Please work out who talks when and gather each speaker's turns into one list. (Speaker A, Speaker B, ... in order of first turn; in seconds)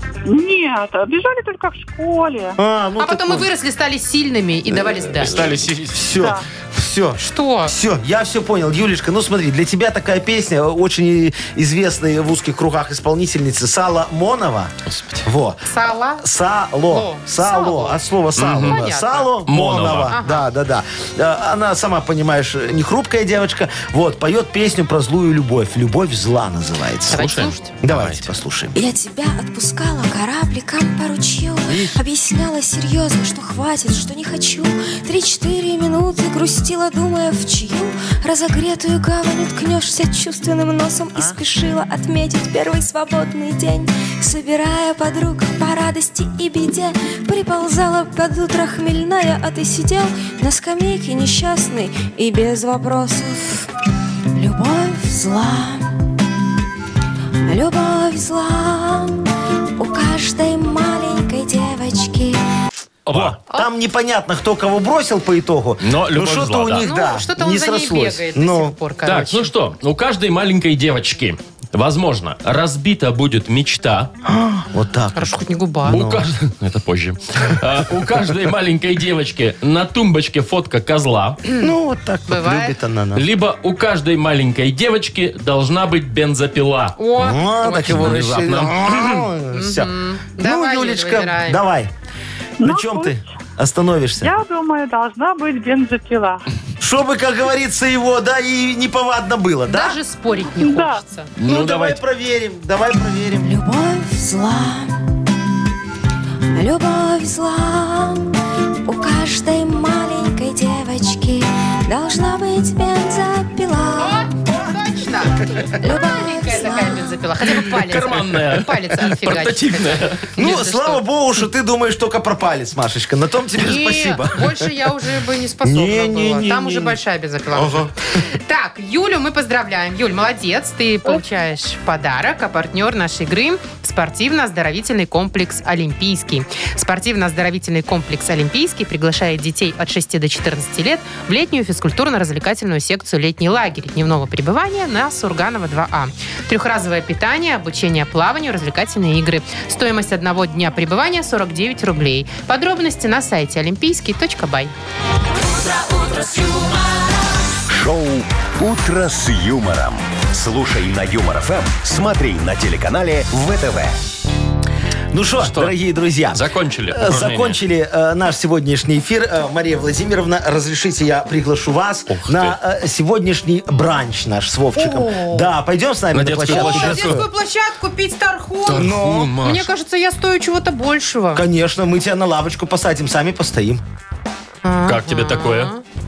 Speaker A: 0.2-2.6, 6.2-6.5, 92.6-93.2, 94.2-96.4, 100.6-101.0
Speaker B: 2.6-3.5, 4.7-14.7, 15.2-15.6, 16.2-28.8, 31.7-32.0, 41.1-41.4, 63.1-68.8, 74.2-76.2, 81.6-83.2, 87.2-91.9, 92.6-94.4, 96.8-100.0, 101.4-103.5, 120.4-124.7, 125.6-127.0, 127.5-127.9, 165.1-177.2, 178.7-179.3, 181.3-183.8
Speaker C: 3.0-5.4, 7.2-7.8, 15.7-16.2, 16.9-19.3, 20.1-20.5, 27.1-27.7, 66.8-69.5, 75.2-76.1, 82.3-82.8, 87.0-88.1, 89.5-91.6, 99.7-101.3, 114.0-121.1, 123.6-154.7, 174.8-175.5, 176.5-181.4, 184.6-185.8
Speaker D: 5.2-6.2, 14.9-15.3, 18.4-18.8, 19.5-20.1, 27.1-28.3, 63.1-63.4, 65.8-66.8, 69.0-74.1, 75.9-81.4, 83.2-87.0, 87.9-89.2, 101.4-102.0, 117.6-120.2, 165.4-165.8, 166.3-167.6, 172.1-172.6, 176.1-177.2, 178.7-179.7, 184.8-185.7
Speaker E: 28.8-53.7, 54.3-55.9, 57.5-59.2, 59.8-62.4, 103.4-104.9, 106.5-108.3, 108.8-114.4, 115.8-117.2, 155.3-157.4
Speaker F: 157.7-164.0